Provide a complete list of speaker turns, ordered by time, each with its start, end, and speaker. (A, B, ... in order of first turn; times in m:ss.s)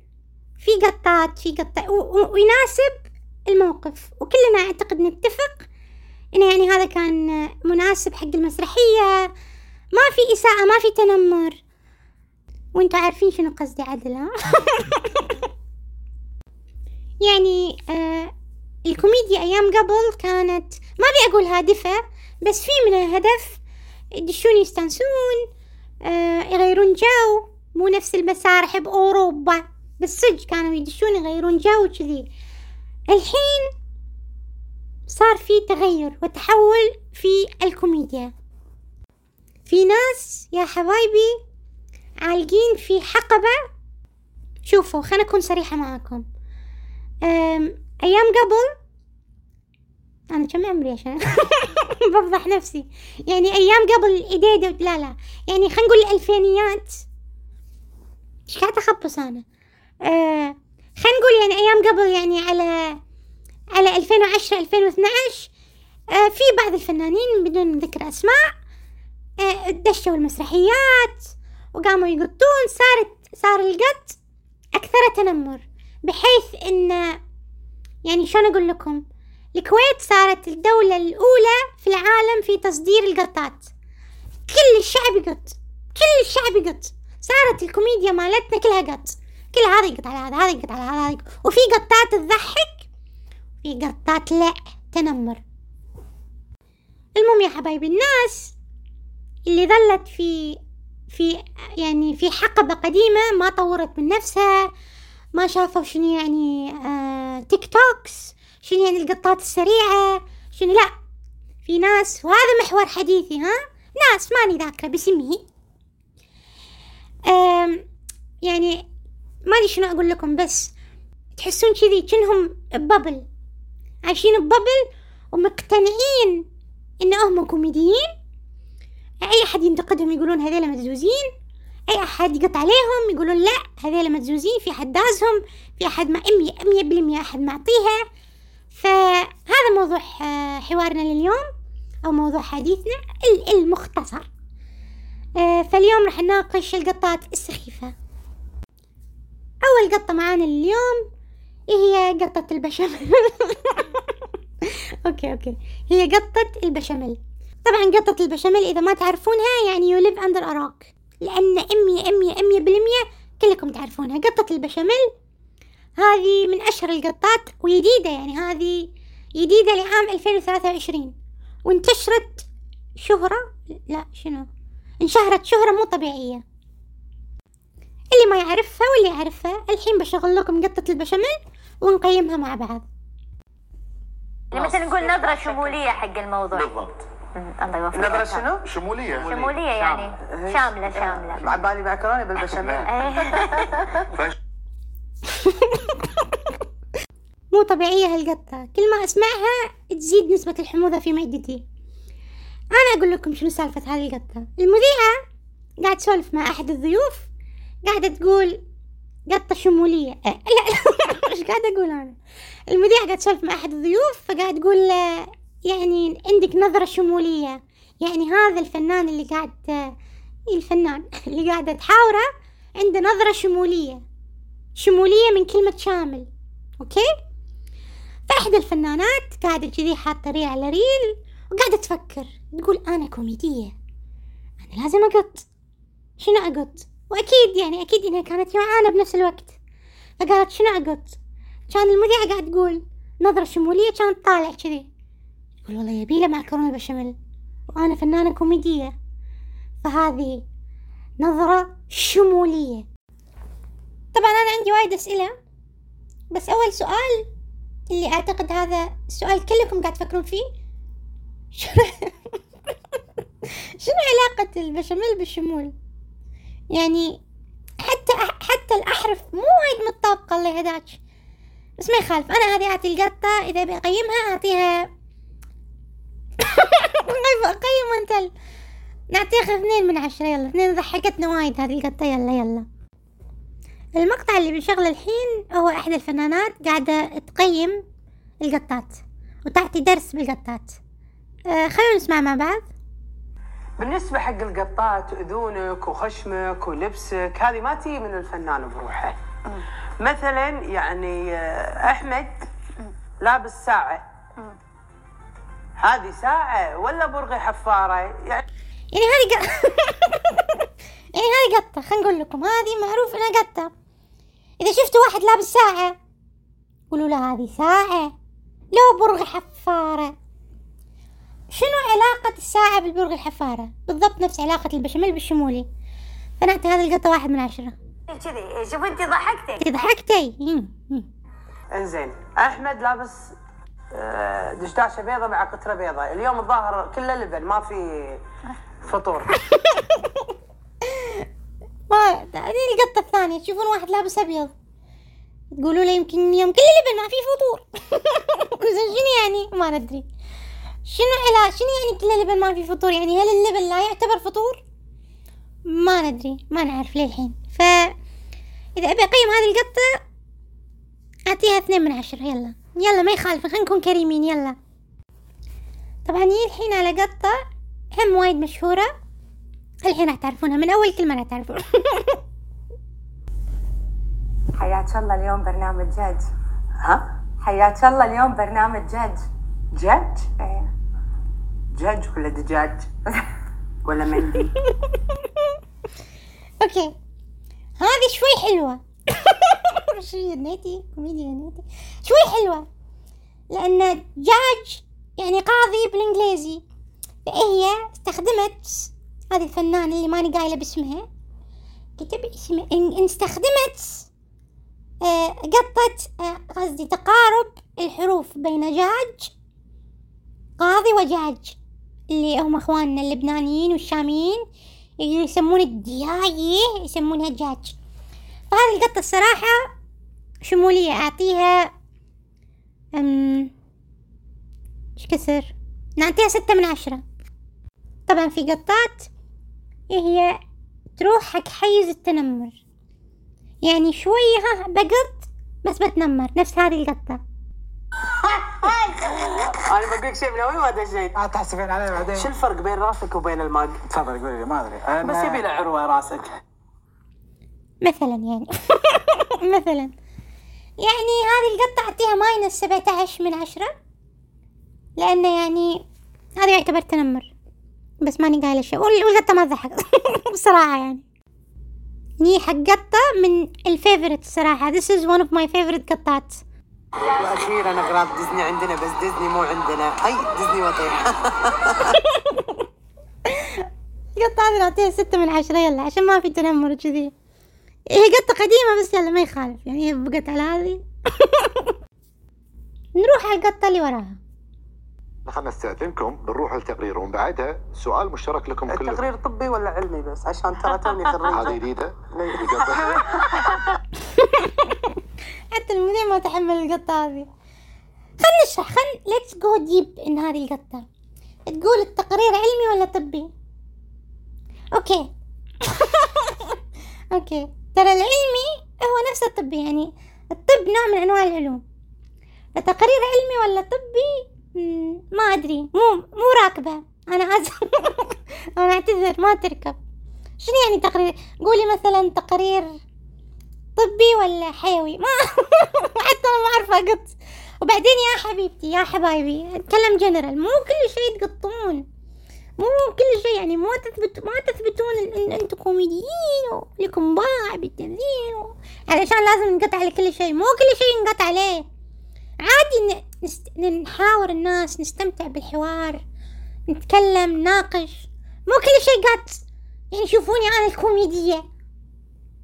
0:00.6-0:05.7 A
0:06.3-0:09.3 A
0:09.9-0:11.6 A
0:12.7-0:15.5 A
0:17.2-0:18.3 A
0:18.8-0:23.6 A
0:24.2-0:25.4 A
0:26.0-0:32.3 A
0:33.1-0:33.7 A
0:35.1-0:38.3 A
0:39.7-0:41.4 A
0:42.2-0:43.6 A
0:44.6-0:46.2 A
0:47.2-0:48.7 A
0:50.3-0:57.0 A
0:58.5-0:59.4 A
1:00.0-1:03.0 A
1:03.8-1:05.5 A
1:06.1-1:08.5 A
1:09.4-1:14.2 A
1:14.8-1:17.2 A
1:18.0-1:19.0 A
1:19.5-1:23.7 A
1:24.5-1:32.9 A
1:33.6-1:35.4 A
1:37.2-1:38.5 A
1:39.5-1:40.6 A
1:41.1-1:44.7 A
1:45.3-1:50.9 A
1:51.6-1:55.4 A
1:57.3-1:57.8 A
1:58.4-1:58.8 A
1:59.5-2:00.7 A
2:01.4-2:03.2 A
2:04.0-2:06.4 A
2:07.0-2:08.1 A
2:09.2-2:11.3 A
2:11.9-2:18.0 A
2:18.7-2:21.4 A
2:22.0-2:24.3 A
2:25.4-2:27.9 A
2:29.6-2:31.0 A
2:31.7-2:45.1 A
2:46.0-2:51.1 A
2:51.6-2:52.5 A
2:53.0-2:54.5 A
2:55.0-2:56.4 A
2:58.1-3:02.8 A
3:04.5-3:06.7 B
3:04.9-3:05.7 C
3:06.5-3:07.0 D
3:07.3-3:08.4 B
3:07.9-3:08.6 C
3:08.0-3:09.5 D
3:09.2-3:13.6 C
3:09.2-3:11.4 B
3:12.4-3:12.9 D
3:12.8-3:13.6 B
3:15.4-3:16.6 A
3:17.5-3:21.6 A
3:22.7-3:25.2 A
3:25.8-3:27.3 A
3:27.8-3:28.6 A
3:29.3-3:32.2 A
3:32.7-3:39.9 A
3:40.5-3:44.0 A
3:44.8-3:46.3 A
3:46.8-3:47.1 A
3:48.3-3:53.7 A
3:54.6-3:55.5 A
3:56.2-3:59.5 A
4:00.2-4:01.2 A
4:01.7-4:04.9 A
4:05.6-4:07.2 A
4:07.7-4:08.9 A
4:09.8-4:10.4 A
4:11.2-4:12.8 A
4:14.1-4:15.3 A
4:16.3-4:17.3 A
4:17.9-4:20.4 A
4:21.5-4:22.4 A
4:22.9-4:25.7 A
4:26.7-4:27.2 A
4:27.8-4:31.0 A
4:31.8-4:34.8 A
4:36.4-4:38.3 A
4:39.1-4:42.6 A
4:44.0-4:47.8 A
4:48.4-4:50.8 A
4:51.5-4:52.7 A
4:53.8-4:59.2 C
5:00.0-5:02.4 C
5:03.2-5:04.0 C
5:05.8-5:08.4 C
5:08.9-5:13.7 A
5:14.6-5:16.0 A
5:16.9-5:18.1 A
5:18.7-5:20.1 A
5:21.5-5:25.7 A
5:26.4-5:27.7 A
5:28.1-5:29.6 B
5:29.6-5:31.1 A
5:31.7-5:33.3 C
5:33.9-5:38.2 C
5:38.8-5:39.3 C
5:39.4-5:40.3 A
5:40.8-5:41.3 A
5:41.9-5:44.5 A
5:45.6-5:50.0 A
5:50.8-5:54.6 A
5:55.7-5:57.9 A
5:58.8-6:00.0 A
6:01.3-6:04.6 A
6:06.0-6:07.4 A
6:08.0-6:08.9 A
6:09.8-6:12.2 A
6:14.6-6:16.3 E
6:17.4-6:19.2 E
6:19.8-6:20.7 E
6:21.8-6:22.8 C
6:21.8-6:22.8 E
6:23.8-6:24.5 C
6:25.1-6:25.4 A
6:26.6-6:26.9 A
6:27.8-6:32.6 A
6:33.5-6:36.6 A
6:37.2-6:41.0 A
6:42.0-6:44.1 A
6:45.0-6:49.3 A
6:50.6-6:51.6 A
6:52.1-6:54.4 A
6:55.0-6:57.8 A
6:58.5-6:59.6 A
7:00.4-7:01.7 A
7:03.0-7:03.5 A
7:05.0-7:07.0 A
7:08.1-7:09.1 A
7:09.9-7:10.4 A
7:11.0-7:12.6 A
7:13.6-7:17.2 A
7:18.4-7:21.2 C
7:21.1-7:22.3 F
7:22.1-7:23.8 C
7:23.9-7:25.5 F
7:25.0-7:26.4 C
7:27.8-7:29.9 A
7:30.8-7:33.7 A
7:35.0-7:35.8 A
7:36.4-7:37.3 A
7:38.0-7:41.0 A
7:42.2-7:46.4 A
7:47.1-7:51.9 C
7:51.9-7:52.6 A
7:53.3-7:57.1 A
7:57.9-8:01.7 A
8:03.0-8:04.2 A
8:05.2-8:09.1 D
8:08.7-8:11.6 C
8:11.3-8:13.0 D
8:12.2-8:13.6 C
8:14.1-8:14.9 A
8:15.5-8:17.3 A
8:18.2-8:20.8 A
8:21.5-8:23.3 A
8:24.7-8:25.1 A
8:25.6-8:26.6 A
8:27.1-8:31.6 A
8:32.6-8:39.8 A
8:40.4-8:42.7 A
8:43.8-8:51.8 A
8:52.6-9:01.6 A
9:02.4-9:06.0 A
9:06.7-9:11.4 A